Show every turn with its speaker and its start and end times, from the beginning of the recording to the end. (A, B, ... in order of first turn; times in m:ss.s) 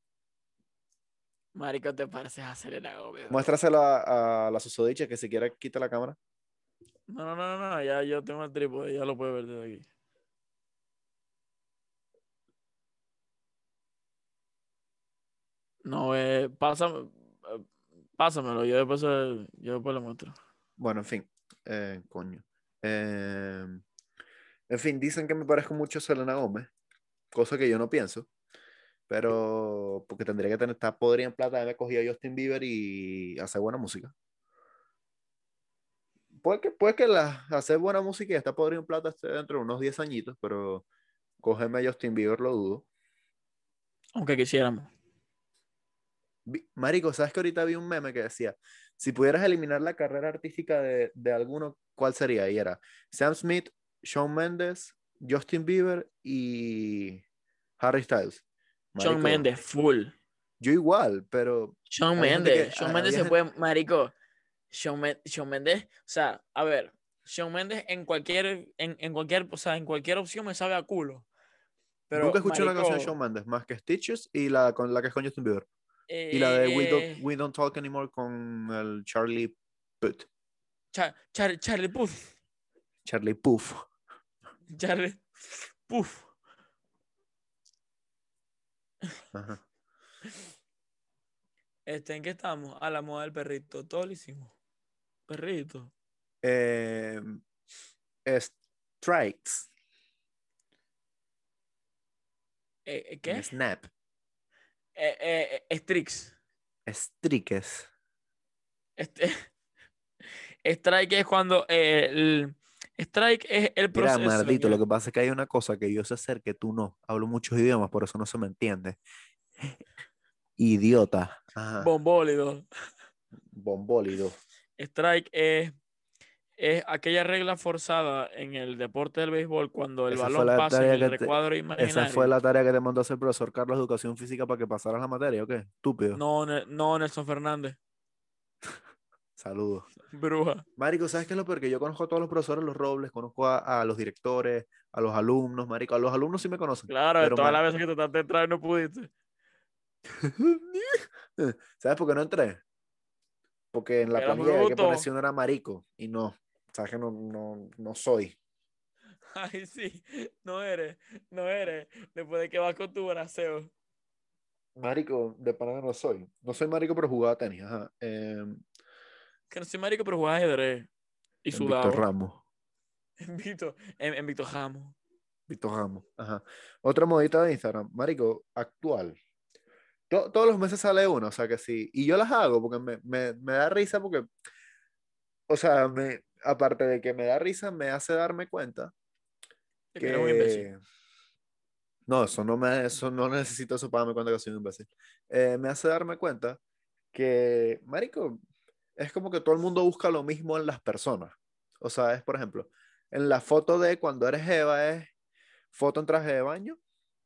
0:01.6-0:03.5 A
0:03.3-0:06.2 B
0:07.1-0:09.9 A
0:15.8-0:17.7 A
0:18.2-0:20.4 A
0:20.8-0:23.8 B
0:24.7-0:26.7 B
0:27.3-0:28.3 B
0:29.1-0:34.1 B
0:36.4-0:40.8 B
0:41.4-0:42.9 B
0:44.2-0:44.9 A
0:46.5-0:57.2 B
0:57.8-0:58.4 B
0:58.9-0:59.5 B
0:59.0-1:00.1 A
1:00.6-1:03.4 B
1:01.9-1:04.1 A
1:04.7-1:11.3 A
1:12.1-1:13.2 A
1:12.1-1:15.7 B
1:16.1-1:17.2 A
1:16.3-1:20.3 B
1:20.9-1:22.3 A
1:23.0-1:23.8 B
1:24.7-1:25.2 A
1:25.9-1:26.3 A
1:29.3-1:29.6 B
1:31.9-1:34.5 A
1:35.3-1:35.9 A
1:36.4-1:37.4 B
1:38.2-1:39.7 B
1:42.9-1:43.5 A
1:43.2-1:43.9 B
1:45.0-1:46.3 A
1:46.9-1:47.9 B
1:49.0-1:49.5 A
1:50.6-1:54.8 A
1:53.9-1:59.0 B
2:00.6-2:01.9 B
2:01.8-2:02.6 A
2:03.5-2:04.4 B
2:04.8-2:05.8 A
2:06.6-2:12.3 A
2:10.1-2:16.2 B
2:16.2-2:17.8 A
2:19.4-2:19.9 B
2:20.1-2:20.6 A
2:20.8-2:27.6 B
2:26.9-2:29.1 A
2:30.2-2:32.6 B
2:33.7-2:38.4 B
2:34.1-2:35.1 A
2:39.3-2:43.7 A
2:44.8-2:48.6 B
2:49.5-2:50.9 A
2:51.4-2:52.0 A
2:51.5-2:52.4 B
2:53.2-2:55.0 A
2:55.5-2:59.2 B
3:00.1-3:04.3 B
3:05.5-3:08.9 B
3:09.9-3:10.7 A
3:10.0-3:10.8 B
3:12.1-3:16.6 B
3:17.1-3:18.4 B
3:19.0-3:25.1 B
3:25.7-3:26.8 B